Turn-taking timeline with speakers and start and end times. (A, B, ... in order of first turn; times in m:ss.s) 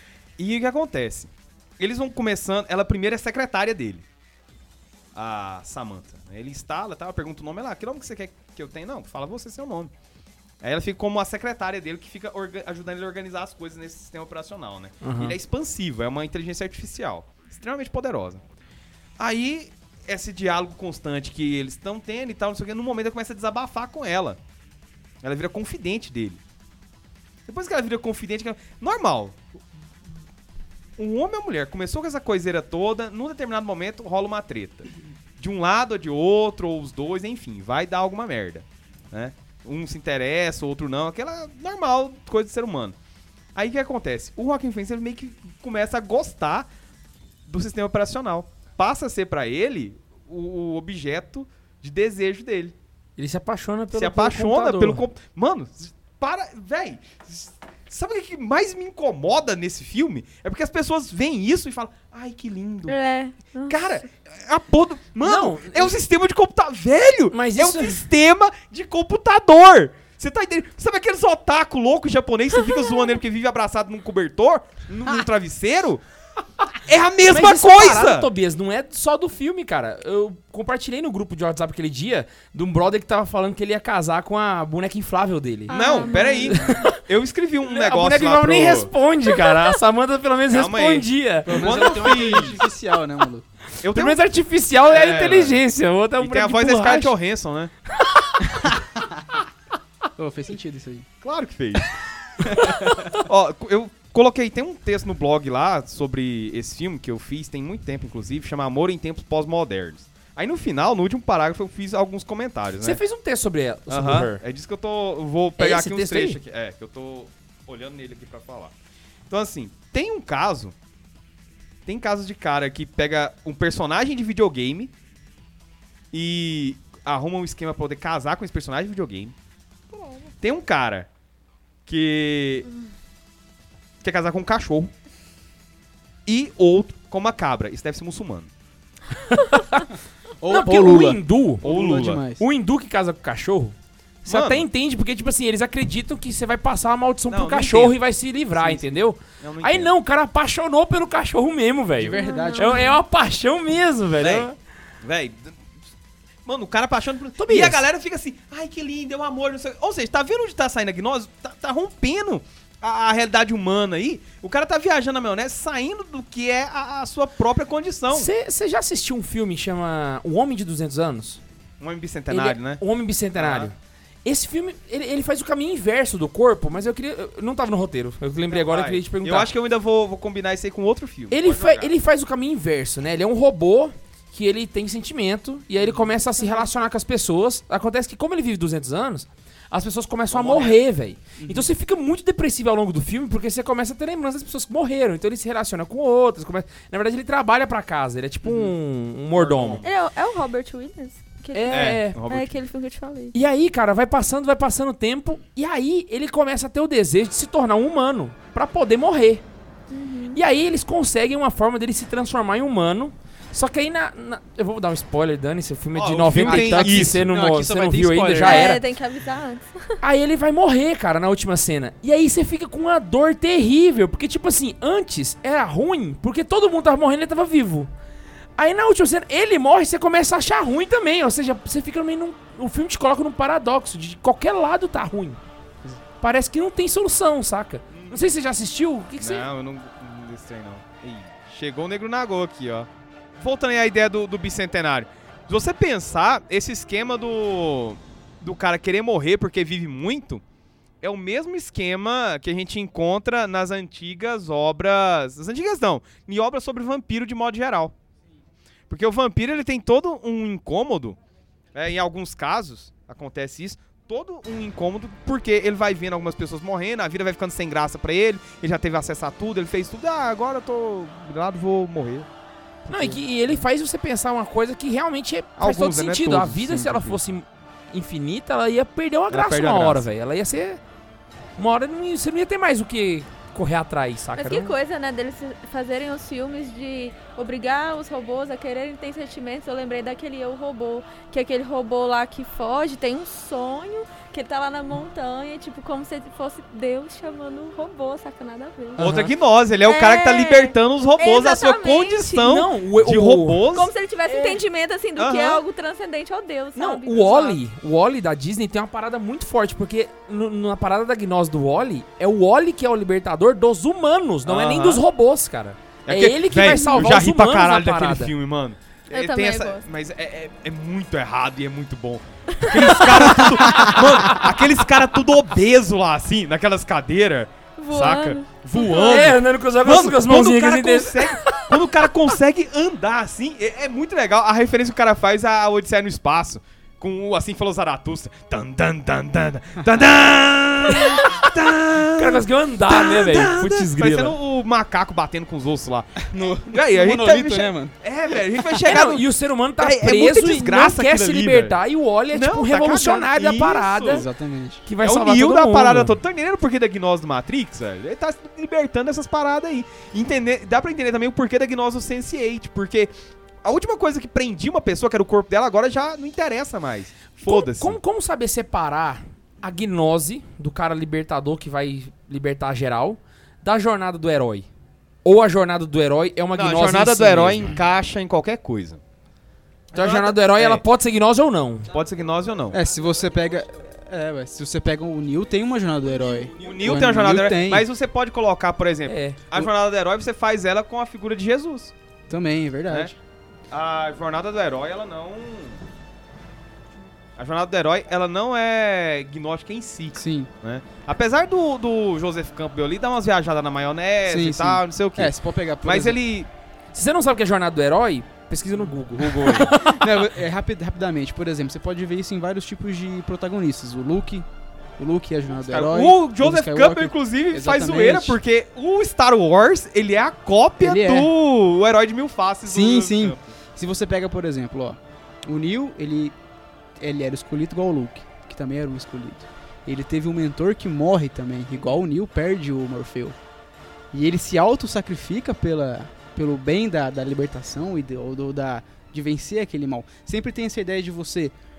0:00.4-0:04.0 A
0:05.1-0:09.9 A
0:10.6-0:18.4 A
0:15.0-0:15.4 B
0:19.2-0:24.4 A
0:25.2-0:26.4 A
0:27.5-0:29.4 A
0:31.0-0:43.0 A
0:43.6-0:46.7 A
0:47.5-0:52.8 A
0:53.2-0:55.0 B
0:53.9-1:03.0 A
1:02.9-1:03.8 C
1:03.7-1:16.0 A
1:05.2-1:05.9 B
1:07.3-1:08.0 B
1:16.8-1:18.3 A
1:17.3-1:27.0 B
1:25.7-1:26.7 C
1:25.7-1:28.9 A
1:27.6-1:31.7 B
1:30.5-1:32.6 A
1:31.5-1:33.4 D
1:33.8-1:34.2 A
1:33.8-1:37.1 B
1:34.9-1:35.6 A
1:36.2-1:37.7 A
1:38.1-1:38.7 B
1:40.2-1:41.1 D
1:41.2-1:53.0 A
1:52.8-1:54.4 B
1:53.9-1:58.7 A
1:55.6-1:56.4 B
1:59.3-2:00.8 A
2:01.9-2:04.9 A
2:06.1-2:09.4 A
2:10.4-2:11.1 A
2:11.9-2:12.7 A
2:14.0-2:14.9 A
2:16.3-2:18.5 A
2:19.2-2:19.9 B
2:20.4-2:22.4 D
2:20.5-2:21.6 B
2:21.6-2:22.2 A
2:22.4-2:34.6 B
2:24.3-2:24.7 A
2:27.3-2:28.0 A
2:29.4-2:29.9 A
2:32.0-2:32.9 D
2:32.2-2:33.0 C
2:34.2-2:34.5 A
2:35.0-2:35.6 A
2:36.4-2:48.3 A
2:37.4-2:37.8 B
2:48.1-2:51.4 B
2:51.8-2:52.8 A
2:52.3-2:59.5 B
2:53.4-2:53.7 A
2:58.5-3:02.0 A
3:01.3-3:19.8 B
3:10.3-3:10.8 A
3:11.4-3:11.7 D
3:18.4-3:18.7 A
3:19.4-3:19.9 A
3:19.8-3:23.4 C
3:21.5-3:22.2 B
3:21.7-3:22.6 A
3:23.3-3:29.4 B
3:29.9-3:30.4 C
3:30.3-3:38.8 B
3:36.0-3:37.3 A
3:36.4-3:38.8 D
3:38.4-3:39.9 C
3:40.0-3:47.9 B
3:48.6-3:55.4 B
3:56.2-3:59.5 B
3:57.9-3:58.3 A
3:59.2-4:10.4 A
4:11.0-4:18.0 A
4:18.9-4:21.2 A
4:21.7-4:32.3 A
4:32.9-4:33.2 A
4:32.9-4:40.8 B
4:35.6-4:37.2 A
4:39.3-4:40.0 A
4:41.6-4:44.7 B
4:44.4-4:59.1 C
4:59.0-4:59.3 B
4:59.0-5:03.9 A
4:59.8-5:02.5 C
5:02.4-5:03.7 B
5:03.7-5:07.6 C
5:04.3-5:04.6 B
5:05.2-5:05.6 A
5:06.8-5:18.3 B
5:14.5-5:15.0 A
5:16.1-5:49.3 A
5:16.7-5:17.1 C
5:19.1-5:19.8 C
5:22.6-5:23.9 C
5:27.8-5:29.3 C
5:28.9-5:31.6 B
5:41.0-5:41.4 B
5:42.1-5:44.4 B
5:46.2-5:47.9 D
5:48.8-5:54.3 B
5:49.8-5:51.8 A
5:52.3-5:54.3 A
5:54.1-5:54.8 D
5:54.9-5:56.2 B
5:55.0-6:03.1 A
6:03.6-6:08.0 A
6:07.4-6:14.7 B
6:15.2-6:17.7 B
6:16.6-6:19.0 A
6:19.9-6:20.8 A
6:19.9-6:21.9 B
6:21.9-6:22.8 A
6:22.7-6:27.9 D
6:26.6-6:31.9 A
6:29.1-6:29.4 B
6:32.3-6:33.2 D
6:33.7-6:35.8 A
6:37.4-6:46.5 A
6:40.1-6:40.5 D
6:44.3-6:46.2 D
6:46.9-6:50.0 B
6:49.2-6:49.7 A
6:49.7-6:54.5 D
6:55.0-6:58.4 D
6:55.5-7:03.5 A
7:00.8-7:01.3 D
7:02.7-7:06.4 D
7:07.0-7:13.4 D
7:14.1-7:21.5 D